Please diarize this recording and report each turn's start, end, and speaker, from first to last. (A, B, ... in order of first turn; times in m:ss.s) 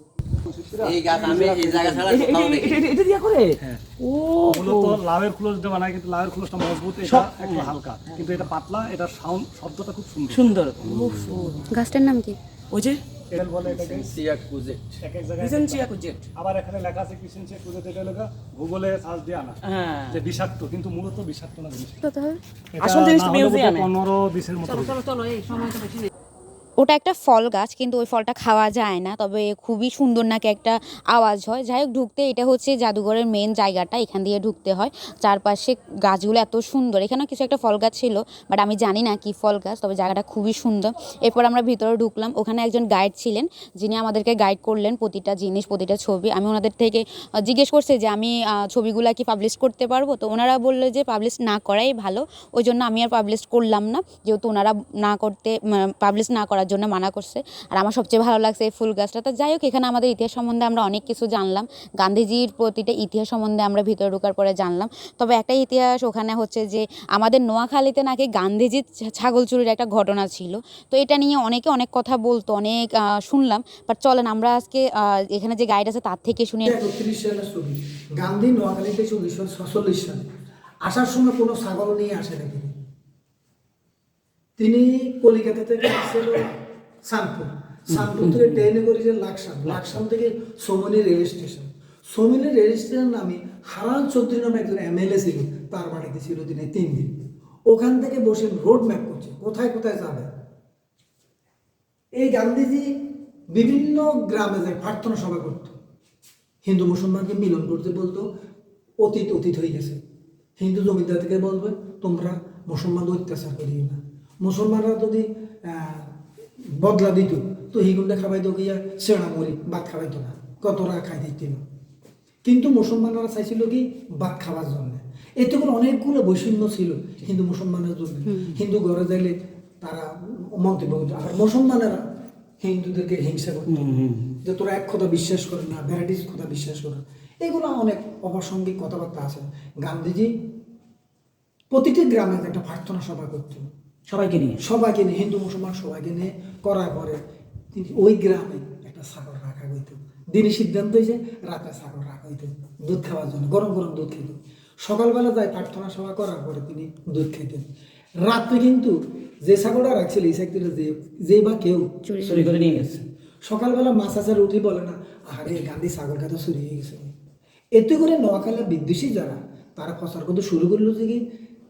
0:00.4-0:02.2 A
0:00.8-0:02.8 B
0:02.1-0:05.0 C
0:04.5-0:11.1 A
0:07.0-0:08.4 C
0:10.3-0:11.7 C
0:11.0-0:11.4 B
0:11.7-0:12.4 D
0:12.7-0:13.0 C
0:13.3-0:14.2 A
0:13.6-0:14.8 B
0:15.0-0:22.0 A
0:15.4-0:16.2 C
0:19.6-0:20.2 C
0:22.0-0:22.4 D
0:22.8-0:25.1 A
0:22.8-0:23.9 C
0:24.9-0:26.0 C
0:26.8-1:16.8 D
1:16.6-1:20.2 E
1:20.8-1:22.7 E
1:24.6-1:26.5 E
1:27.0-1:37.1 E
1:37.7-1:40.3 E
1:42.1-1:45.8 E
1:46.6-1:48.3 E
1:49.0-1:50.0 E
1:50.6-1:56.2 E
1:56.7-2:01.6 E
2:02.4-2:12.0 E
2:12.6-2:13.9 E
2:13.7-2:14.4 C
2:14.4-2:20.3 E
2:21.7-2:27.2 E
2:24.1-2:24.6 C
2:27.7-2:37.6 E
2:38.2-2:47.1 E
2:42.0-2:42.6 D
2:42.3-2:43.0 C
2:47.8-2:51.2 E